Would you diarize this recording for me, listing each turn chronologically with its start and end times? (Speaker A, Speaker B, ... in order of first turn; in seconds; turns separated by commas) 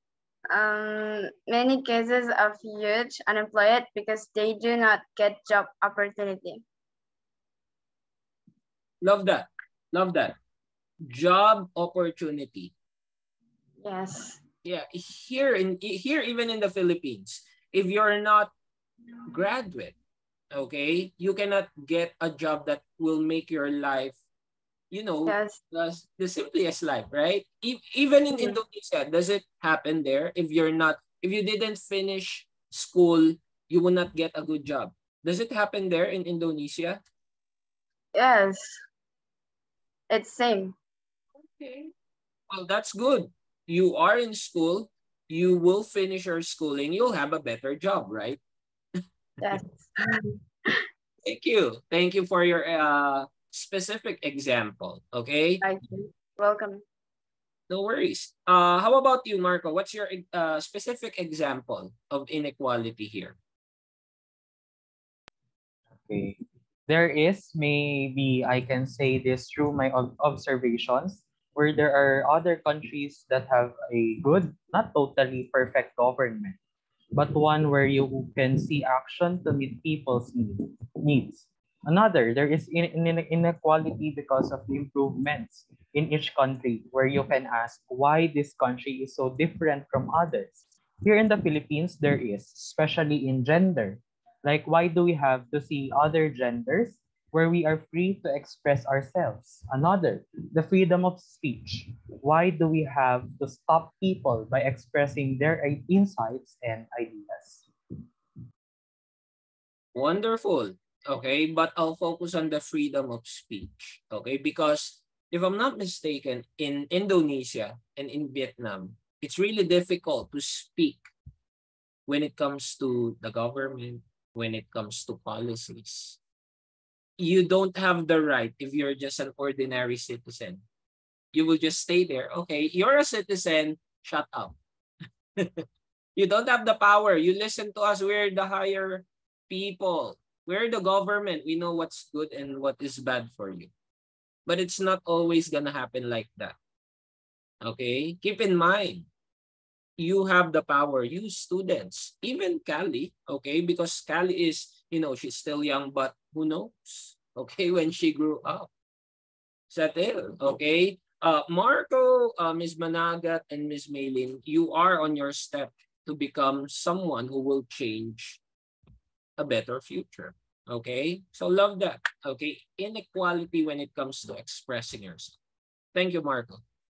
Speaker A: 0.5-6.6, Speaker B: 9.0-10.3, Speaker B: 11.0-12.7, Speaker A: 13.8-14.4, Speaker B: 14.6-18.5, Speaker B: 19.3-19.9, Speaker B: 20.5-24.2, Speaker B: 24.9-37.0, Speaker A: 25.2-25.6, Speaker A: 38.1-38.8, Speaker A: 40.1-40.7, Speaker B: 42.5-48.4, Speaker A: 49.4-50.8, Speaker B: 51.2-55.6, Speaker A: 55.6-56.8, Speaker B: 57.7-63.4, Speaker C: 66.0-76.6, Speaker C: 77.1-107.7, Speaker B: 109.9-121.1, Speaker B: 122.1-126.2, Speaker B: 127.2-130.6, Speaker B: 131.3-134.6, Speaker B: 135.4-135.6, Speaker B: 136.2-143.7, Speaker B: 144.4-146.6, Speaker B: 147.6-149.1, Speaker B: 150.0-158.7, Speaker B: 159.7-168.4, Speaker B: 169.4-175.4, Speaker B: 175.9-176.6